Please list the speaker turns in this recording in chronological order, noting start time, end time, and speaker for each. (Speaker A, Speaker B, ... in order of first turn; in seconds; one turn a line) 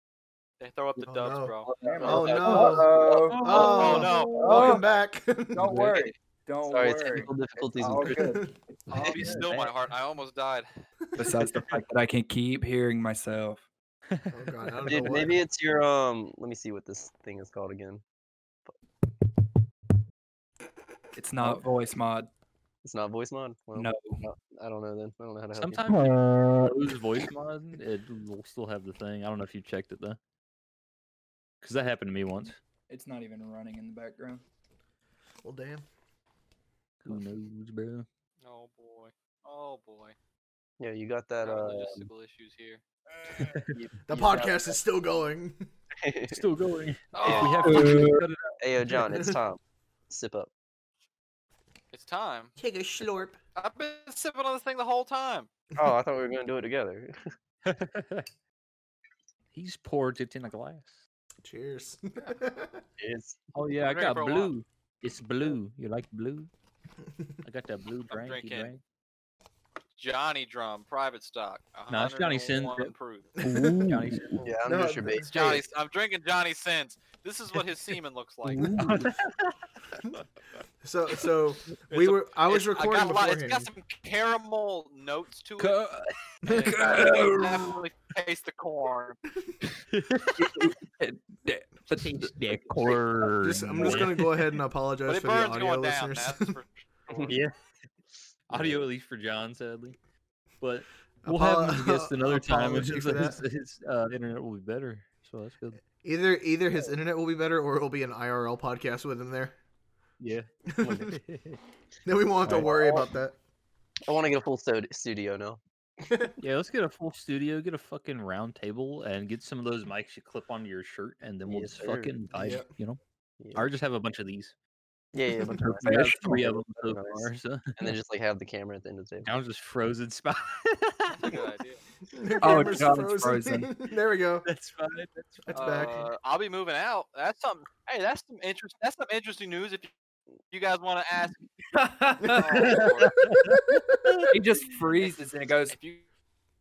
Speaker A: 0.6-1.7
Speaker B: 1.0-5.8
Speaker C: 1.6-4.7
Speaker D: 1.8-4.8
Speaker A: 3.5-5.0
Speaker D: 5.5-9.5
Speaker C: 5.8-6.1
Speaker C: 6.6-8.4
Speaker B: 8.1-8.5
Speaker A: 8.9-10.7
Speaker E: 9.0-9.4
Speaker C: 9.0-9.7
Speaker D: 11.2-13.6
Speaker B: 14.3-15.4
Speaker C: 14.8-18.0
Speaker D: 21.1-22.3
Speaker C: 22.8-25.8
Speaker D: 23.7-24.2
Speaker E: 25.6-30.2
Speaker D: 26.0-26.7
Speaker E: 31.6-32.6
Speaker D: 32.9-34.4
Speaker B: 35.4-35.8
Speaker E: 37.0-38.1
Speaker A: 38.4-40.1
Speaker C: 40.8-42.1
Speaker A: 41.4-42.8
Speaker E: 43.4-43.7
Speaker C: 43.7-44.8
Speaker B: 44.1-45.6
Speaker C: 46.0-46.4
Speaker E: 46.3-48.5
Speaker A: 47.1-47.9
Speaker C: 47.2-48.0
Speaker D: 47.6-48.3
Speaker C: 48.6-50.5
Speaker A: 51.9-52.5
Speaker B: 52.6-53.4
Speaker A: 53.5-55.5
Speaker C: 55.8-57.1
Speaker E: 57.6-58.3
Speaker E: 59.5-61.0
Speaker B: 61.4-62.8
Speaker C: 63.0-63.4
Speaker E: 63.5-66.5
Speaker A: 63.8-64.5
Speaker E: 67.4-68.8
Speaker A: 68.1-68.7
Speaker A: 69.9-73.3
Speaker E: 71.9-72.9
Speaker E: 73.4-74.5
Speaker D: 73.5-74.3
Speaker C: 74.4-75.6
Speaker B: 74.6-75.3
Speaker A: 75.3-78.7
Speaker D: 78.5-79.1
Speaker E: 78.6-79.6
Speaker B: 80.8-83.7
Speaker A: 81.9-85.8
Speaker E: 85.6-86.1
Speaker A: 86.5-89.2
Speaker D: 86.5-87.8
Speaker E: 89.9-90.7
Speaker D: 90.4-92.3
Speaker E: 91.9-94.1
Speaker B: 93.4-96.6
Speaker A: 95.0-97.3
Speaker C: 97.1-97.4
Speaker E: 97.3-97.5
Speaker E: 98.5-100.0
Speaker C: 98.5-98.8
Speaker E: 100.6-105.8
Speaker B: 101.2-103.4
Speaker B: 106.0-109.5
Speaker E: 110.2-110.5
Speaker C: 110.8-111.1
Speaker E: 111.0-111.6
Speaker B: 112.0-113.3
Speaker C: 112.5-113.1
Speaker C: 114.0-115.6
Speaker B: 116.1-116.3
Speaker E: 116.4-123.0
Speaker C: 121.5-122.1
Speaker B: 122.3-122.7
Speaker C: 123.4-123.7
Speaker E: 123.5-124.5
Speaker C: 125.1-129.3
Speaker D: 125.5-126.4
Speaker E: 125.6-127.9
Speaker E: 129.2-131.4
Speaker A: 131.2-131.8
Speaker B: 132.1-134.5
Speaker D: 132.4-133.7
Speaker E: 134.5-135.9
Speaker B: 135.4-136.1
Speaker A: 135.5-139.9
Speaker A: 140.5-141.4
Speaker D: 141.7-142.8
Speaker A: 142.3-143.1
Speaker E: 142.6-144.2
Speaker B: 143.5-143.8
Speaker D: 144.3-145.8
Speaker A: 145.7-146.1